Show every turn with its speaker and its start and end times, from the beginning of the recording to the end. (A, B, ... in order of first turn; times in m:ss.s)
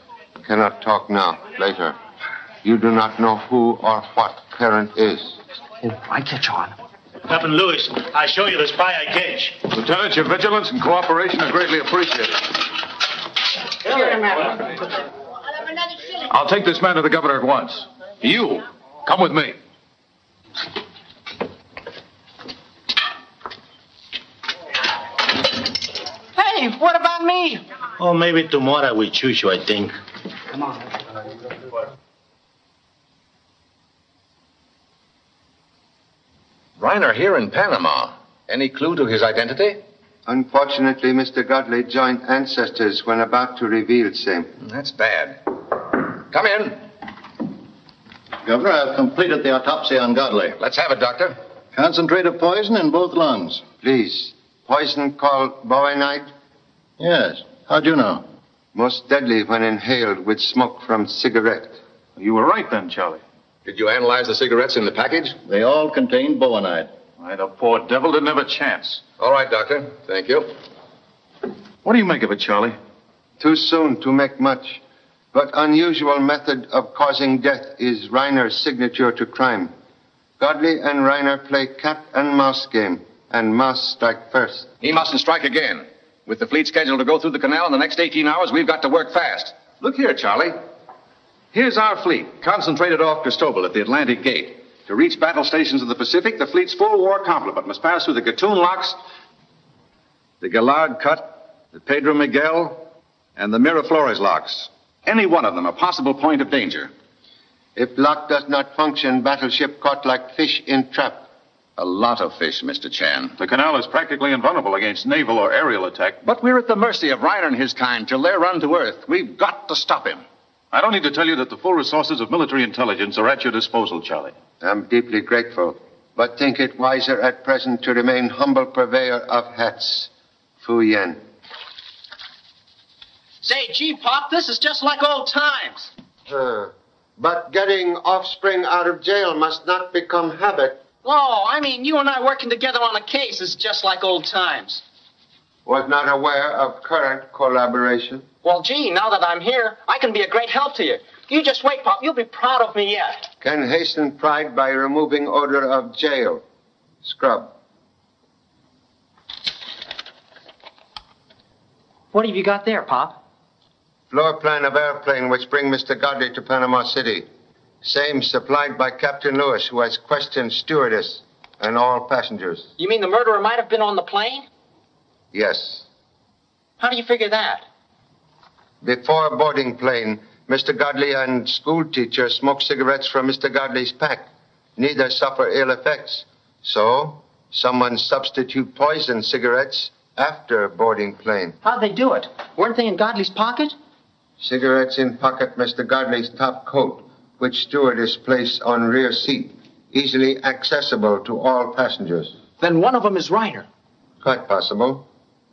0:00.4-0:02.0 A
0:02.6-0:05.4 A
0:05.8-0:06.7 B
0:07.3-0:09.6 C
0:09.7-0:12.4 D
0:16.2-0:19.6 D
0:26.4-0:27.6 B
0:28.0-0:29.9 C
0:36.8-0:39.8 E
0:40.2-0:44.5 A
0:44.6-0:45.4 E
0:46.3-0:46.8 E
0:48.4-0:50.5 F
0:50.6-0:51.4 E
0:51.7-0:53.6 F
0:53.8-0:56.3 A
0:57.0-0:58.2 F
0:58.7-1:01.8 A
1:02.2-1:03.2 D
1:03.7-1:05.3 E
1:05.4-1:06.9 F
1:07.2-1:09.0 D
1:09.2-1:10.2 E
1:11.8-1:12.8 D
1:13.4-1:14.8 A
1:15.3-1:19.7 A
1:20.4-1:24.7 A
1:24.8-1:30.6 E
1:31.5-1:39.0 E
1:40.4-1:46.9 E
1:47.7-1:51.2 A
1:51.8-1:53.4 E
1:53.4-1:56.2 D
1:56.2-2:00.2 E
2:00.7-2:04.3 D
2:04.6-2:11.2 A
2:13.4-2:15.9 B
2:16.3-2:20.8 A
2:21.0-2:24.8 B
2:25.6-2:28.3 A
2:28.4-2:33.2 B
2:33.4-2:36.4 A
2:37.0-2:37.5 A
2:42.1-2:43.2 B
2:44.1-2:47.3 A
2:47.8-2:52.7 A
2:52.8-2:54.5 B
2:55.3-2:55.9 A
2:56.8-2:57.6 B
2:58.8-3:11.6 A
3:11.6-3:13.8 B
3:14.4-3:22.4 A
3:22.6-3:23.7 B
3:24.2-3:25.0 A